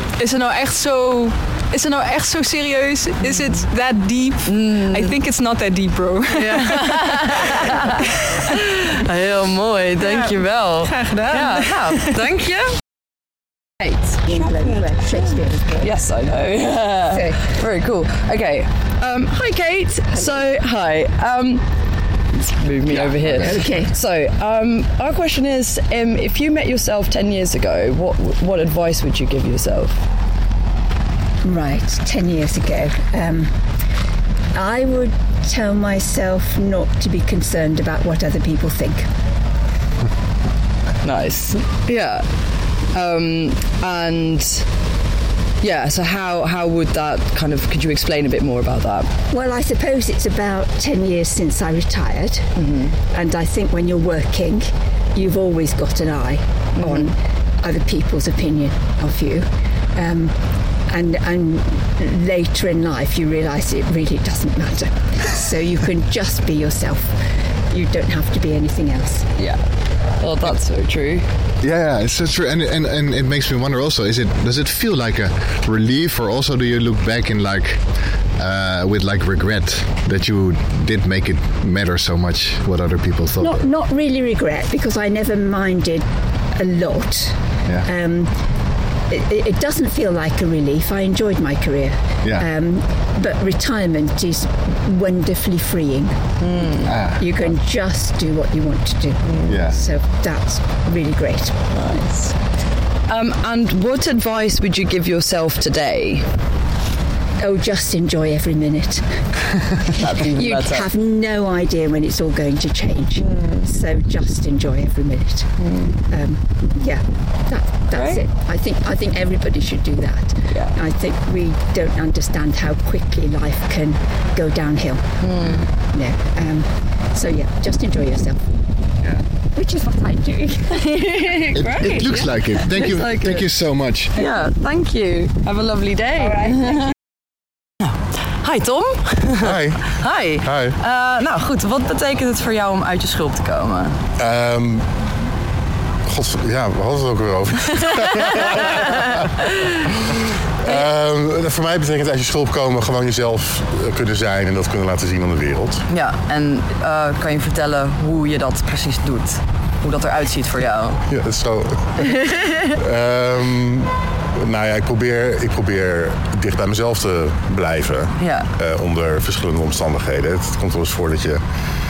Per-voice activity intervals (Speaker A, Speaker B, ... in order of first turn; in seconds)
Speaker A: 0.2-8.6, 10.0-12.2
Speaker B: 4.5-5.1, 6.3-12.8, 13.8-14.8, 15.7-21.6, 22.4-30.0, 41.0-42.3, 42.9-44.7, 45.6-49.1, 52.5-53.0, 56.8-57.1, 70.2-71.2, 96.4-97.0, 101.7-102.3, 103.1-106.3, 110.0-110.9, 113.2-113.7, 115.6-116.0, 117.9-118.2, 120.5-120.7, 125.2-125.7, 130.8-133.5, 134.1-136.8, 138.3-144.0, 147.9-150.9, 155.9-161.0, 162.1-162.7, 168.2-168.5
Speaker C: 14.3-15.9, 17.1-17.5, 22.9-23.9, 31.4-33.7, 34.5-39.1, 49.3-52.5, 53.1-69.3, 83.4-88.3, 89.1-96.3, 97.1-102.1, 107.4-128.7, 129.5-131.1
Speaker D: 23.2-23.5, 71.6-83.7, 92.2-92.5, 96.8-97.4, 99.5-99.8, 125.4-125.7, 131.5-134.2
Speaker E: 139.4-140.8, 144.2-144.9, 146.1-149.3, 150.6-155.8, 161.1-171.4